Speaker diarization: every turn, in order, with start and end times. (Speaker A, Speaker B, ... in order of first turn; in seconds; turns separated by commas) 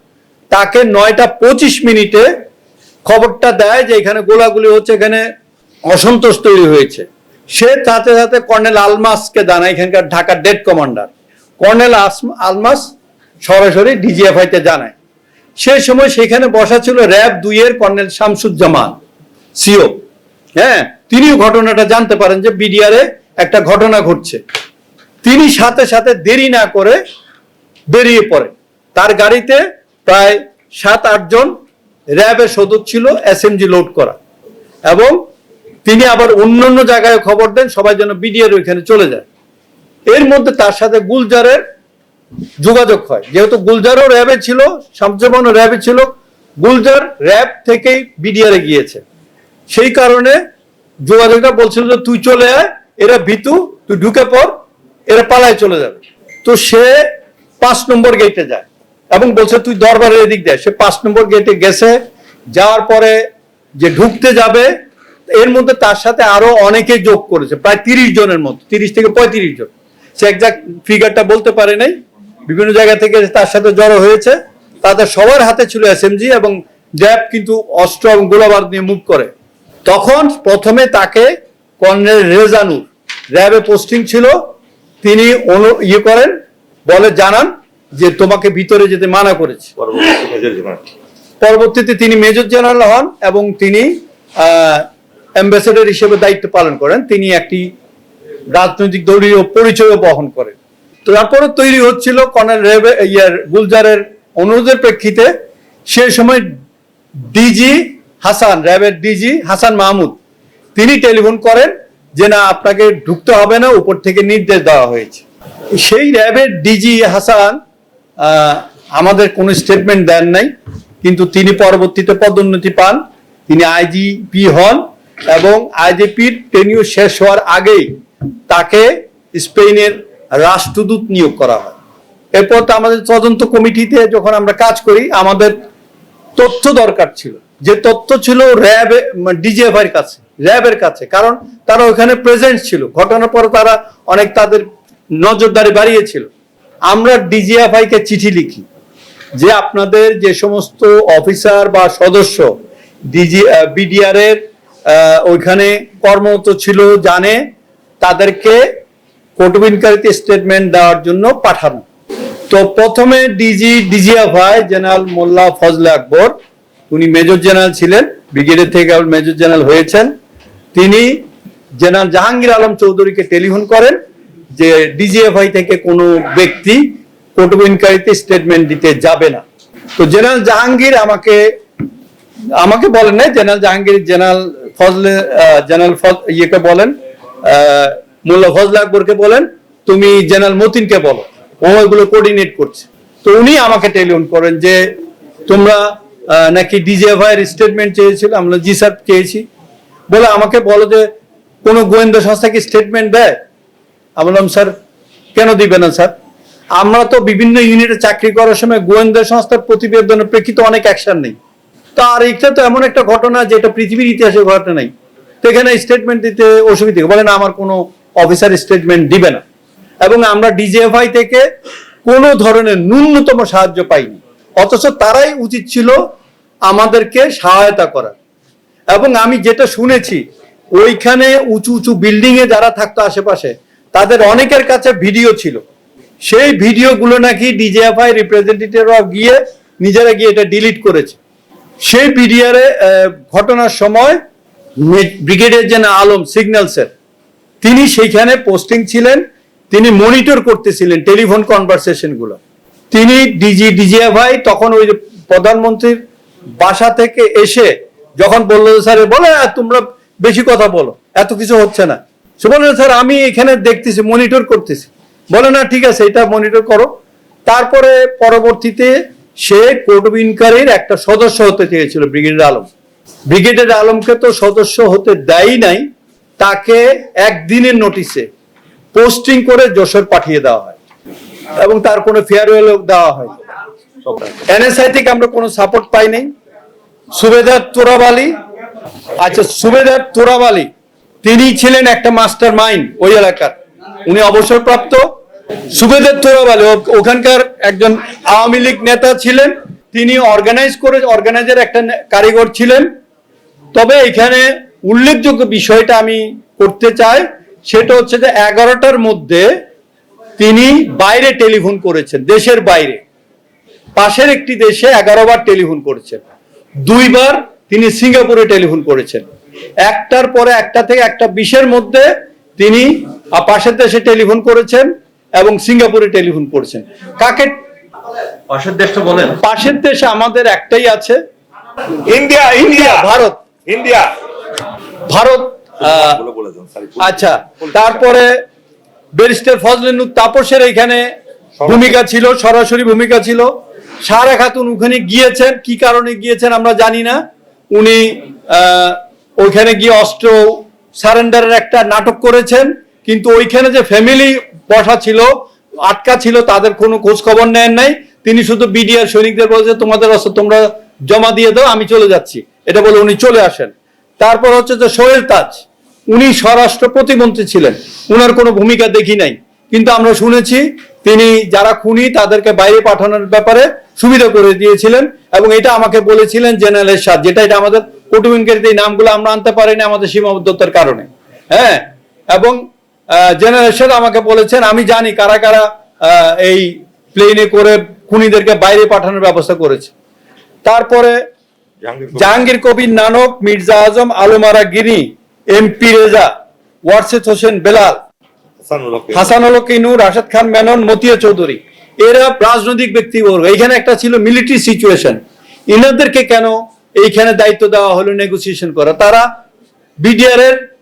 Speaker A: 0.5-2.3, Speaker A: 3.0-5.2, Speaker A: 5.9-11.1, Speaker A: 11.6-14.9, Speaker A: 15.6-19.0, Speaker A: 19.6-20.0, Speaker A: 20.6-24.4, Speaker A: 25.2-27.0, Speaker A: 27.9-31.5, Speaker A: 32.1-34.2, Speaker A: 34.9-35.2, Speaker A: 35.9-39.3, Speaker A: 40.1-41.6, Speaker A: 42.6-49.0, Speaker A: 49.7-50.4, Speaker A: 51.0-54.5, Speaker A: 55.1-57.1, Speaker A: 57.6-62.0, Speaker A: 62.5-63.2, Speaker A: 63.8-64.7, Speaker A: 65.3-72.0, Speaker A: 72.5-79.3, Speaker A: 79.9-84.5, Speaker A: 85.0-86.3, Speaker A: 86.9-89.7, Speaker B: 89.8-90.9, Speaker A: 91.4-94.9, Speaker A: 95.4-97.7, Speaker A: 98.5-105.3, Speaker A: 105.9-106.5, Speaker A: 107.3-110.2, Speaker A: 110.8-115.2, Speaker A: 115.8-117.6, Speaker A: 118.2-120.5, Speaker A: 121.0-128.0, Speaker A: 128.5-131.8, Speaker A: 132.3-135.6, Speaker A: 136.4-146.3, Speaker A: 146.9-148.7, Speaker A: 149.4-152.6, Speaker A: 153.1-157.4, Speaker A: 158.0-158.6, Speaker A: 159.4-161.8, Speaker A: 162.5-166.3, Speaker A: 166.9-170.1, Speaker A: 170.7-171.2, Speaker A: 171.8-174.0, Speaker A: 174.6-179.4, Speaker A: 180.0-181.5, Speaker A: 182.6-194.9, Speaker A: 195.5-199.4, Speaker A: 200.1-201.1, Speaker A: 201.6-203.4, Speaker A: 204.2-204.7, Speaker A: 205.3-206.1, Speaker A: 206.8-211.3, Speaker A: 212.0-214.9, Speaker A: 215.4-219.4, Speaker A: 220.0-221.4, Speaker A: 222.1-226.0, Speaker A: 226.7-228.2, Speaker A: 228.9-230.2, Speaker A: 230.8-235.6, Speaker A: 236.3-241.2, Speaker A: 241.8-244.2, Speaker A: 244.8-246.9, Speaker A: 247.6-252.4, Speaker A: 252.9-256.0, Speaker A: 256.6-266.9, Speaker A: 267.5-272.7, Speaker A: 273.3-275.9, Speaker A: 276.4-278.3, Speaker A: 278.9-280.8, Speaker A: 281.6-283.3, Speaker A: 284.3-286.3, Speaker A: 287.1-288.4, Speaker A: 289.2-290.7, Speaker A: 291.2-295.1, Speaker A: 295.7-302.9, Speaker A: 303.7-309.5, Speaker A: 310.4-313.0, Speaker A: 314.0-316.2, Speaker A: 316.9-319.2, Speaker A: 319.8-327.6, Speaker A: 328.5-331.2, Speaker B: 332.1-333.1, Speaker A: 332.7-333.4, Speaker B: 333.7-334.1, Speaker A: 335.1-336.2, Speaker B: 335.8-338.0, Speaker A: 337.0-338.4, Speaker A: 339.1-341.1, Speaker B: 341.6-341.9, Speaker A: 341.6-343.5, Speaker A: 344.1-347.2, Speaker A: 347.7-389.9, Speaker A: 390.6-391.2, Speaker B: 391.8-392.5, Speaker A: 392.1-396.3, Speaker A: 396.9-398.0, Speaker B: 398.6-399.3, Speaker A: 399.1-409.3, Speaker A: 410.0-410.6